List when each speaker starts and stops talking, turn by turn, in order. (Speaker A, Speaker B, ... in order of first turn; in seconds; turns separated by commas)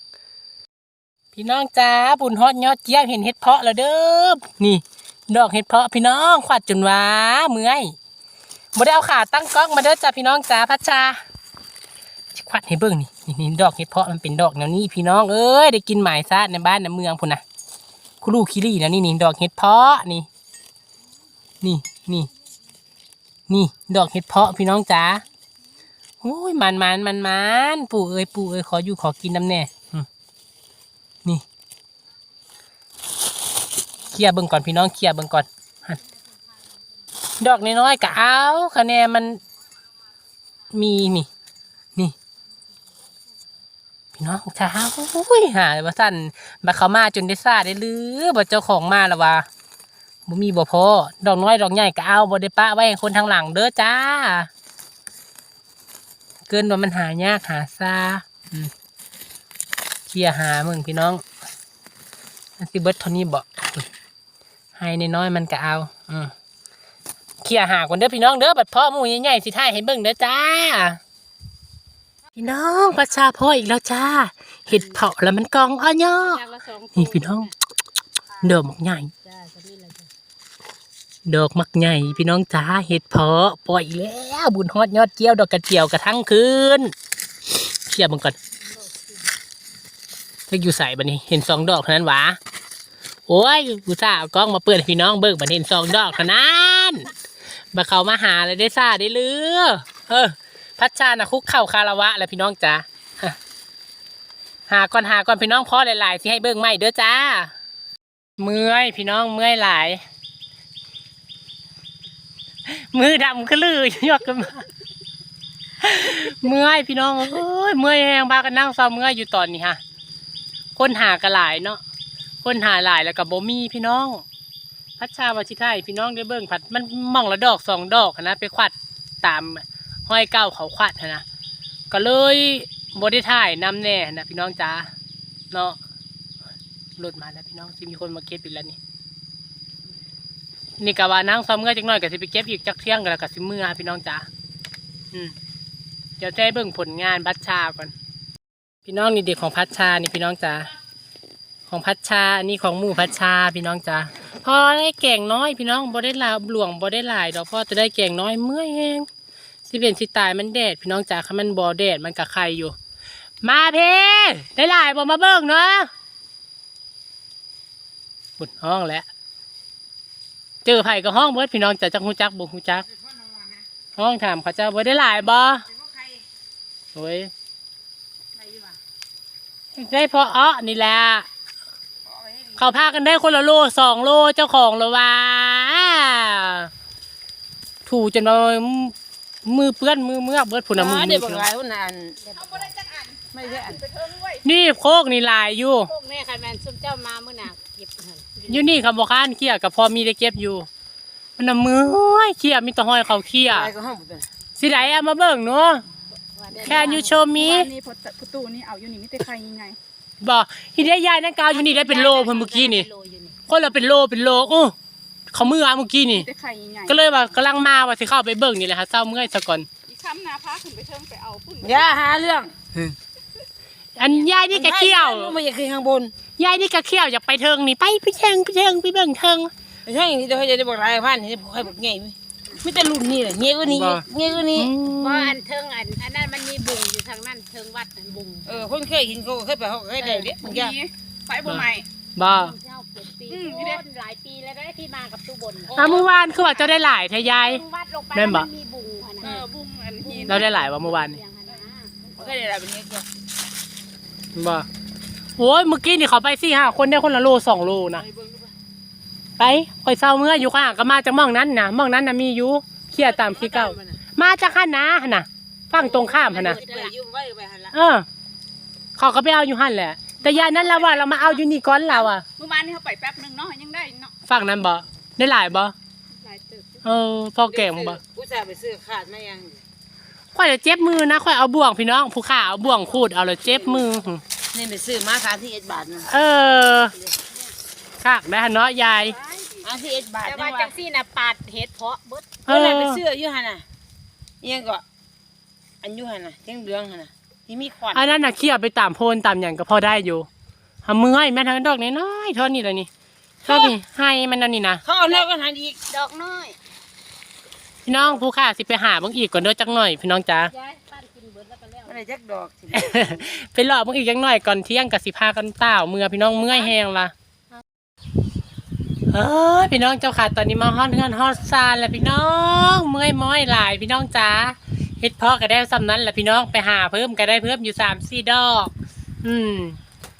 Speaker A: 1.3-7.9, Speaker A: 8.7-11.2, Speaker A: 12.3-17.4, Speaker A: 18.2-20.3, Speaker A: 21.6-22.3, Speaker A: 23.5-25.2, Speaker A: 26.2-30.1, Speaker A: 34.1-36.0, Speaker A: 37.4-39.4, Speaker A: 40.7-41.3, Speaker A: 44.2-49.5, Speaker A: 50.2-54.5, Speaker A: 56.5-58.7, Speaker A: 60.1-61.2, Speaker A: 62.6-63.9, Speaker A: 64.8-66.3, Speaker A: 67.4-71.0, Speaker A: 72.3-76.4, Speaker B: 76.2-77.5, Speaker A: 76.9-77.5, Speaker A: 78.4-79.1, Speaker B: 79.2-80.1, Speaker A: 81.2-86.9, Speaker A: 87.6-88.3, Speaker A: 90.5-92.4, Speaker A: 93.3-97.1, Speaker A: 97.7-103.4, Speaker A: 104.7-107.5, Speaker A: 108.4-110.0, Speaker A: 112.6-114.6, Speaker A: 115.8-119.8, Speaker A: 120.8-121.8, Speaker A: 122.4-124.2, Speaker A: 125.0-131.2, Speaker A: 131.9-134.9, Speaker A: 135.5-135.8, Speaker A: 137.0-138.8, Speaker A: 140.8-144.3, Speaker A: 146.2-147.9, Speaker A: 148.8-150.7, Speaker A: 151.7-159.1, Speaker A: 159.6-162.8, Speaker A: 163.4-165.9, Speaker A: 168.4-169.1, Speaker A: 170.6-172.9, Speaker A: 173.9-175.6, Speaker A: 176.9-177.3, Speaker A: 179.7-181.3, Speaker A: 182.6-186.7, Speaker A: 187.8-188.9, Speaker A: 189.4-191.4, Speaker C: 190.7-192.2, Speaker B: 192.3-192.7, Speaker D: 192.5-194.4, Speaker C: 193.3-193.8, Speaker A: 194.4-195.9, Speaker B: 195.9-198.6, Speaker A: 198.5-200.7, Speaker A: 201.4-203.7, Speaker C: 203.5-204.3, Speaker A: 204.6-205.8, Speaker B: 206.3-207.2, Speaker C: 206.5-207.0, Speaker A: 206.6-207.7, Speaker D: 207.0-209.8, Speaker A: 210.2-212.9, Speaker B: 211.5-213.4, Speaker A: 213.5-214.7, Speaker A: 215.3-216.3, Speaker D: 216.1-217.0, Speaker A: 216.9-219.7, Speaker D: 219.9-221.9, Speaker C: 221.6-222.6, Speaker A: 224.0-225.4, Speaker C: 224.5-226.1, Speaker A: 226.4-229.5, Speaker C: 229.8-234.7, Speaker A: 233.7-235.3, Speaker B: 235.0-238.7, Speaker C: 238.4-240.8, Speaker D: 240.2-241.9, Speaker A: 241.4-242.5, Speaker B: 242.2-246.0, Speaker D: 243.3-243.8, Speaker C: 245.7-246.1, Speaker A: 245.7-248.5, Speaker B: 247.2-249.4, Speaker D: 249.2-250.3, Speaker C: 250.0-250.4, Speaker B: 250.1-252.4, Speaker A: 250.3-251.2, Speaker C: 252.2-253.1, Speaker A: 254.3-254.7, Speaker A: 255.4-258.0, Speaker C: 258.0-258.5, Speaker A: 259.4-266.6, Speaker C: 263.0-264.0, Speaker C: 265.8-267.7, Speaker B: 266.3-266.9, Speaker A: 267.7-268.1, Speaker A: 268.9-272.2, Speaker D: 270.2-271.3, Speaker D: 272.0-274.1, Speaker A: 274.2-275.7, Speaker D: 276.2-276.7, Speaker A: 276.8-278.0, Speaker C: 277.5-279.6, Speaker A: 280.3-284.2, Speaker C: 284.5-286.1, Speaker A: 286.1-286.9, Speaker A: 288.0-289.2, Speaker C: 289.6-290.7, Speaker B: 290.2-292.4, Speaker A: 292.4-293.0, Speaker C: 292.5-293.6, Speaker C: 294.4-294.8, Speaker C: 295.8-298.0, Speaker A: 297.9-300.3, Speaker A: 300.8-302.9, Speaker A: 303.4-304.8, Speaker C: 303.5-303.7, Speaker C: 304.8-305.8, Speaker B: 305.9-306.6, Speaker A: 307.8-310.5, Speaker B: 310.5-312.0, Speaker C: 311.9-313.2, Speaker A: 312.7-317.1, Speaker A: 319.1-329.8